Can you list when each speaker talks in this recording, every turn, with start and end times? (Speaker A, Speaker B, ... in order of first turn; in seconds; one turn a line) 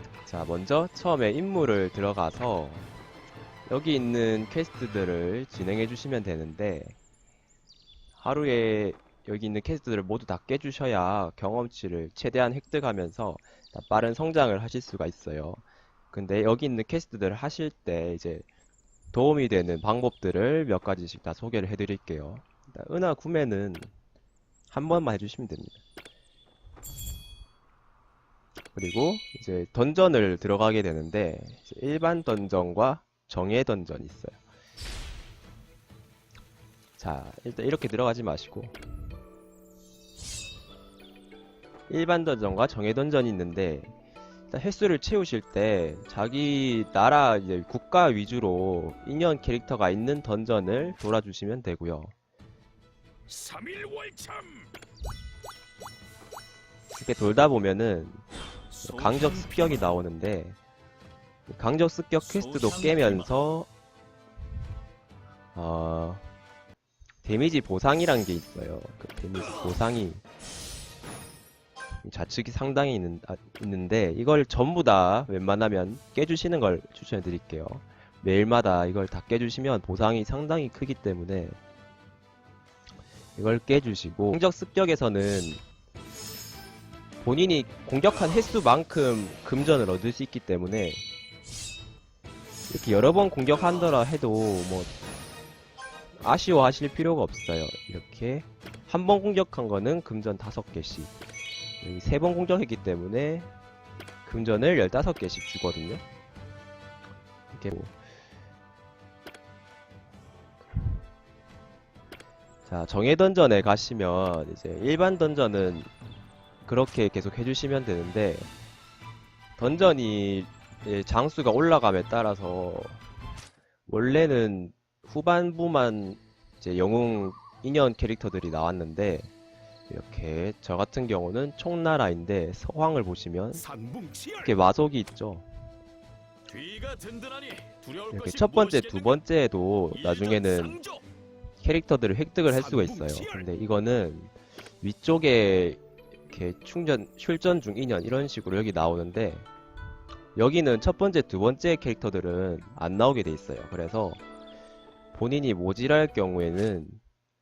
Speaker A: 0.2-2.9
Speaker A: 3.7-7.0
Speaker A: 8.2-18.4
Speaker A: 19.1-23.9
Speaker A: 24.7-25.7
Speaker A: 28.7-34.4
Speaker A: 37.0-38.8
Speaker A: 41.9-43.9
Speaker A: 44.5-52.1
Speaker B: 53.3-54.7
Speaker A: 57.0-58.2
Speaker B: 58.7-60.0
Speaker A: 58.8-60.6
Speaker A: 61.5-63.7
Speaker B: 62.2-63.5
Speaker A: 65.5-66.2
Speaker A: 67.2-70.2
Speaker A: 72.0-81.6
Speaker A: 83.4-85.6
Speaker A: 87.2-91.0
Speaker A: 92.7-94.9
Speaker A: 96.2-101.1
Speaker A: 101.8-103.5
Speaker A: 104.2-106.0
Speaker A: 107.5-107.9
Speaker A: 112.7-115.9
Speaker A: 116.7-118.5
Speaker A: 119.6-123.0
Speaker A: 123.9-129.3
Speaker A: 129.9-133.6
Speaker B: 133.6-134.6
Speaker A: 134.4-135.4
Speaker B: 136.4-139.2
Speaker A: 138.1-140.8
Speaker B: 139.9-141.0
Speaker A: 141.6-149.5
Speaker B: 142.5-143.4
Speaker A: 150.3-154.2
Speaker A: 155.1-157.0